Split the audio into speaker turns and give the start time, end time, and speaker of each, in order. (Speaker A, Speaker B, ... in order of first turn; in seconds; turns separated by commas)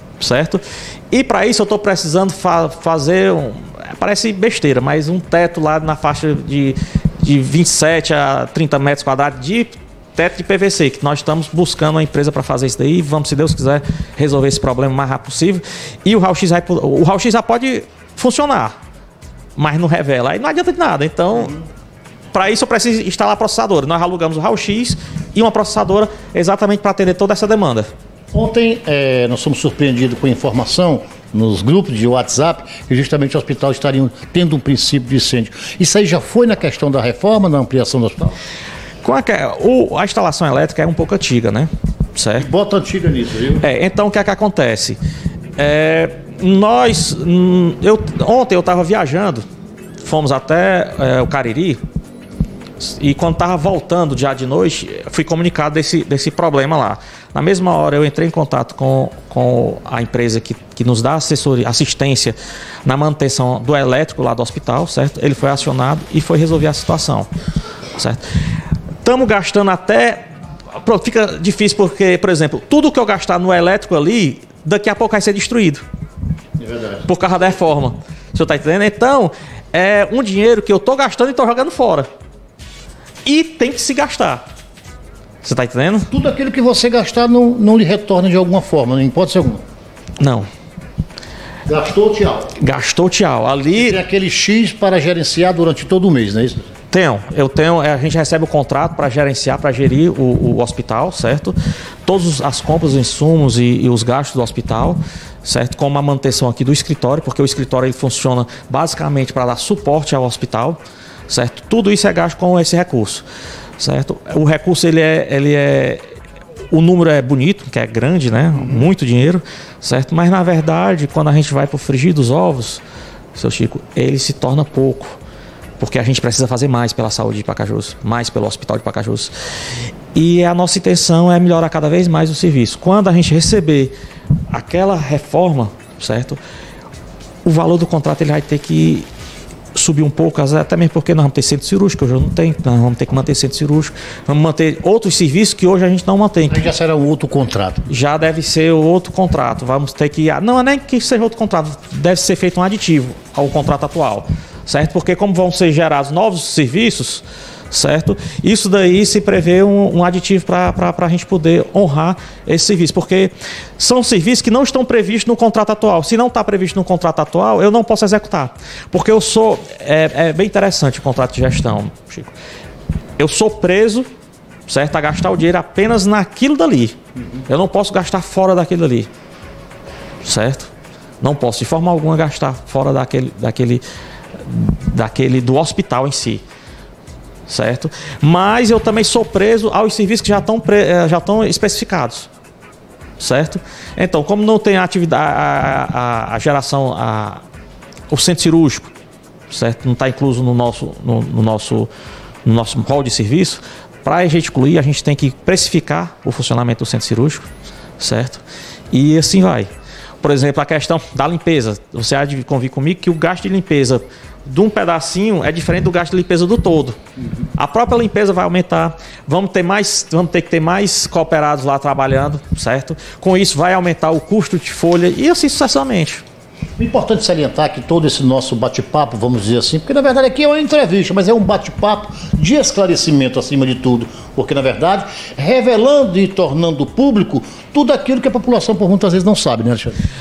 Speaker A: 0.2-18.8, Speaker A: 19.6-21.6, Speaker A: 22.3-27.9, Speaker B: 28.3-38.4, Speaker A: 39.0-42.5, Speaker B: 42.4-43.6, Speaker A: 43.6-45.0, Speaker A: 45.6-49.4, Speaker A: 50.0-51.8, Speaker A: 52.8-67.3, Speaker A: 68.0-68.2, Speaker A: 69.0-70.2, Speaker A: 70.8-75.8, Speaker B: 76.6-77.1, Speaker A: 77.0-82.1, Speaker A: 83.2-84.4, Speaker A: 85.4-86.1, Speaker B: 86.1-89.6, Speaker A: 90.2-90.5, Speaker B: 91.7-92.5, Speaker A: 92.6-94.0, Speaker B: 93.7-96.7, Speaker A: 96.9-113.2, Speaker A: 113.8-116.0, Speaker A: 116.7-122.8, Speaker A: 123.3-125.2, Speaker A: 125.8-129.3, Speaker A: 130.1-133.9, Speaker A: 134.5-136.4, Speaker A: 137.4-139.1, Speaker A: 139.8-146.7, Speaker B: 146.5-147.9, Speaker A: 147.9-172.3, Speaker A: 173.2-174.1, Speaker A: 174.7-177.0, Speaker A: 177.5-179.1, Speaker A: 180.2-183.8, Speaker A: 184.4-186.4, Speaker A: 187.5-192.3, Speaker A: 193.2-197.4, Speaker A: 198.1-198.9, Speaker A: 199.5-201.9, Speaker A: 202.4-207.5, Speaker A: 208.0-209.7, Speaker A: 210.2-217.0, Speaker A: 217.5-226.2, Speaker B: 226.8-240.0